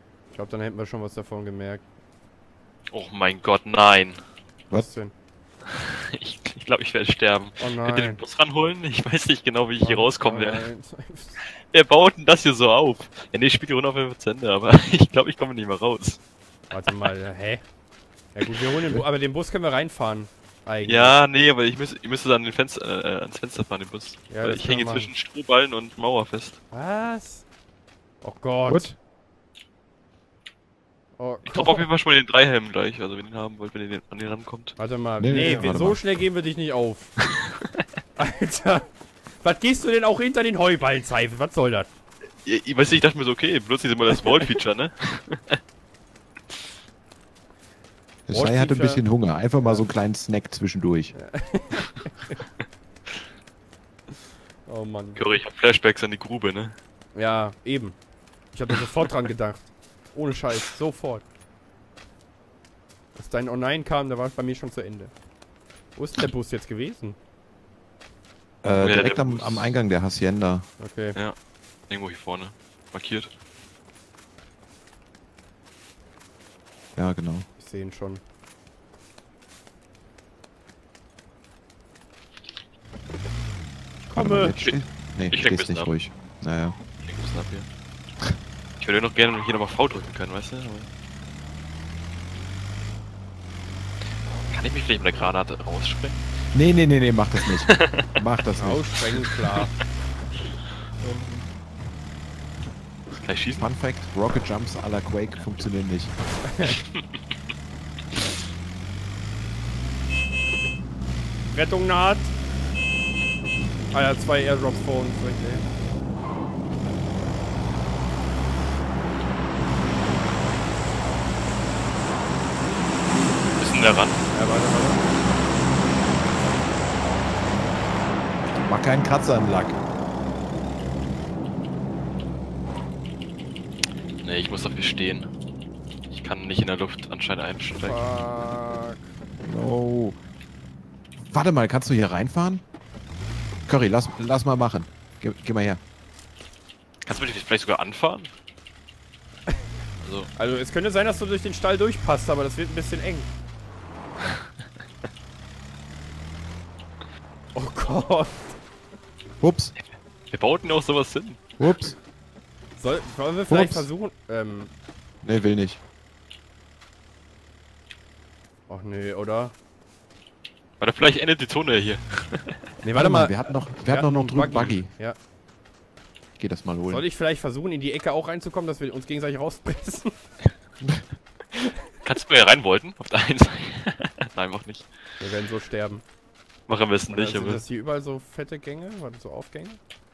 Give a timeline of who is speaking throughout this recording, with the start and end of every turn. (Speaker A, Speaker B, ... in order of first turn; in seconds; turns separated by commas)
Speaker A: 0.3-1.8, Speaker B: 2.9-4.2, Speaker A: 4.7-5.1, Speaker B: 5.7-10.7, Speaker A: 7.6-8.2, Speaker A: 9.8-11.4, Speaker B: 11.7-16.2, Speaker A: 16.7-17.6, Speaker A: 18.3-21.1, Speaker B: 20.9-26.6, Speaker A: 24.3-25.1, Speaker A: 26.7-27.4, Speaker A: 28.2-28.9, Speaker C: 28.7-29.0, Speaker A: 31.2-31.9, Speaker B: 31.5-34.8, Speaker A: 34.8-37.1, Speaker C: 35.2-36.0, Speaker A: 38.2-38.9, Speaker A: 39.4-41.9, Speaker B: 42.5-45.6, Speaker A: 44.1-44.5, Speaker C: 48.3-51.1, Speaker A: 48.3-49.0, Speaker A: 49.6-49.9, Speaker A: 51.1-52.4, Speaker A: 54.7-55.2, Speaker B: 55.2-56.8, Speaker A: 57.1-58.0, Speaker A: 58.5-61.2, Speaker A: 63.1-65.1, Speaker A: 66.0-67.2, Speaker C: 68.6-70.7, Speaker B: 68.8-69.7, Speaker A: 70.8-71.2, Speaker B: 71.9-73.3, Speaker C: 77.0-77.5, Speaker A: 77.6-78.2, Speaker A: 84.1-84.6, Speaker C: 84.1-86.8, Speaker B: 84.6-86.0, Speaker B: 87.0-87.7, Speaker B: 88.8-90.9, Speaker B: 94.5-96.2, Speaker C: 96.5-98.8, Speaker B: 97.4-98.1, Speaker A: 98.6-99.7, Speaker B: 101.0-101.5, Speaker B: 103.2-103.7, Speaker C: 103.6-106.1, Speaker A: 106.5-106.8, Speaker B: 106.7-107.0, Speaker A: 111.5-112.3, Speaker A: 113.9-115.7, Speaker B: 123.6-124.2, Speaker A: 124.3-125.0, Speaker C: 128.5-129.8, Speaker B: 134.2-135.3, Speaker B: 136.1-138.0, Speaker A: 137.8-139.1, Speaker C: 139.4-140.2, Speaker C: 141.2-142.6, Speaker C: 143.7-145.8, Speaker B: 147.1-148.3, Speaker B: 150.0-150.3, Speaker A: 150.4-153.3, Speaker A: 157.6-158.6, Speaker C: 159.4-159.7, Speaker B: 159.8-161.4, Speaker C: 161.6-162.0, Speaker A: 162.8-164.7, Speaker C: 163.5-163.9, Speaker C: 165.2-165.8, Speaker A: 168.7-169.5, Speaker B: 170.8-172.6, Speaker A: 172.8-175.2, Speaker C: 173.0-174.9, Speaker C: 176.4-177.1, Speaker A: 176.9-180.1, Speaker B: 182.0-184.9, Speaker A: 185.2-186.0, Speaker B: 186.7-187.6, Speaker A: 187.1-189.8